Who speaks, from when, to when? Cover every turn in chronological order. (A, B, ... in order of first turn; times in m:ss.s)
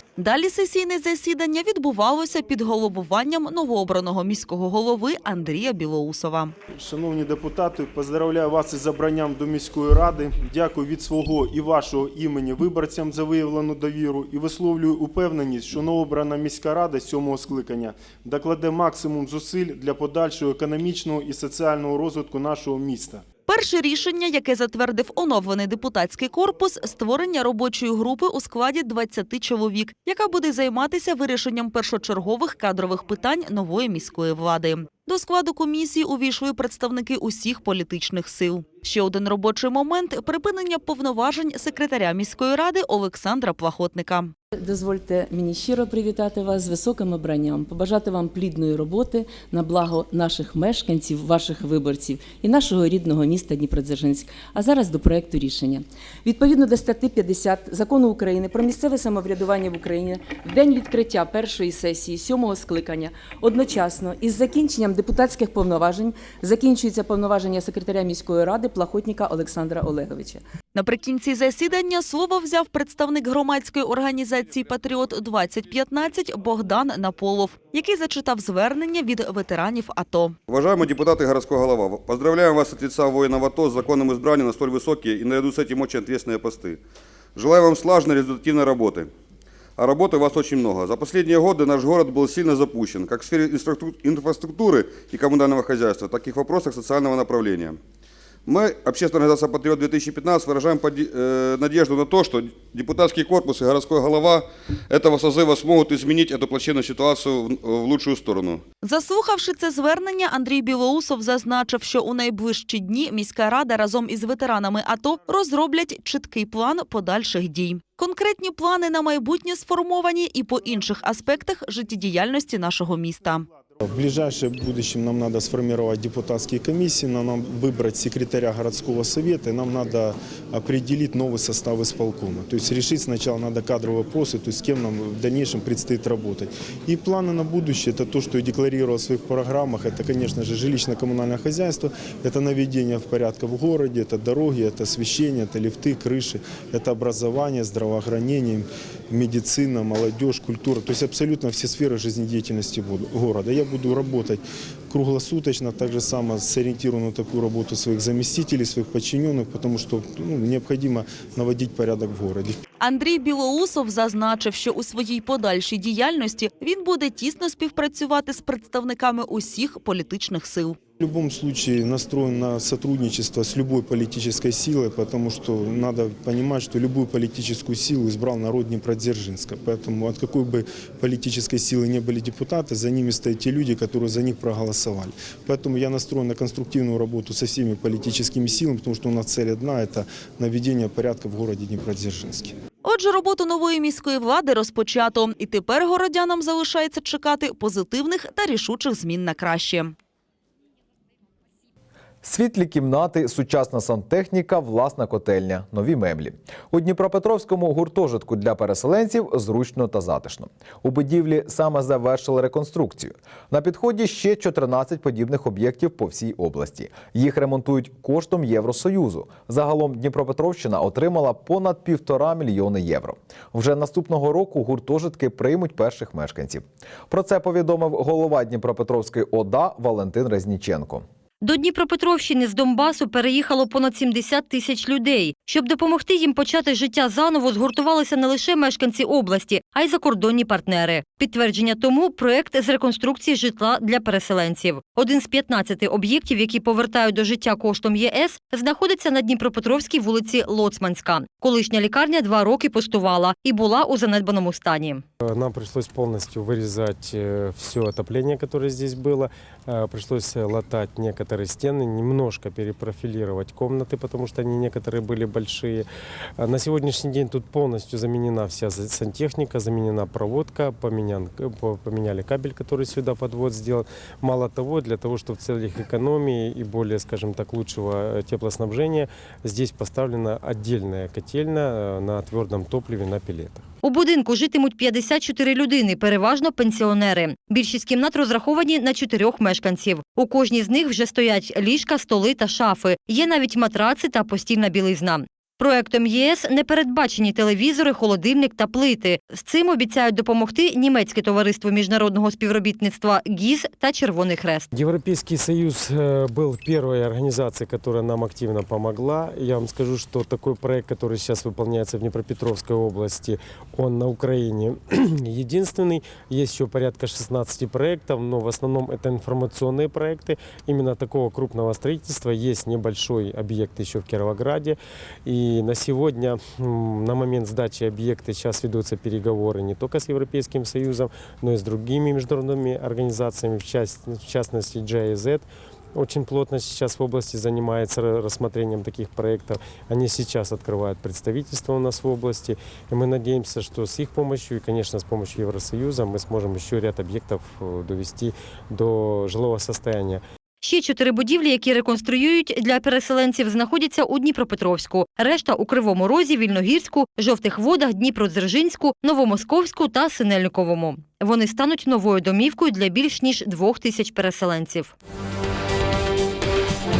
0:00.2-0:06.5 A
0:06.7-0:23.2 B
0:23.5-0:44.3 A
0:44.5-1:10.4 C
1:10.7-1:20.4 A
1:20.5-1:26.8 D
1:27.4-1:29.1 D
1:29.8-1:37.8 D
1:38.4-1:48.6 D
1:48.8-2:03.5 A
2:03.8-2:42.6 B
2:42.8-2:50.8 A
2:51.0-3:12.5 B
3:12.8-3:19.9 A
3:22.2-3:51.0 E
3:51.4-4:15.0 F
4:15.2-4:25.8 G
4:26.4-4:43.6 G
4:43.8-5:04.7 F
5:04.7-5:50.2 G
5:50.6-6:04.9 F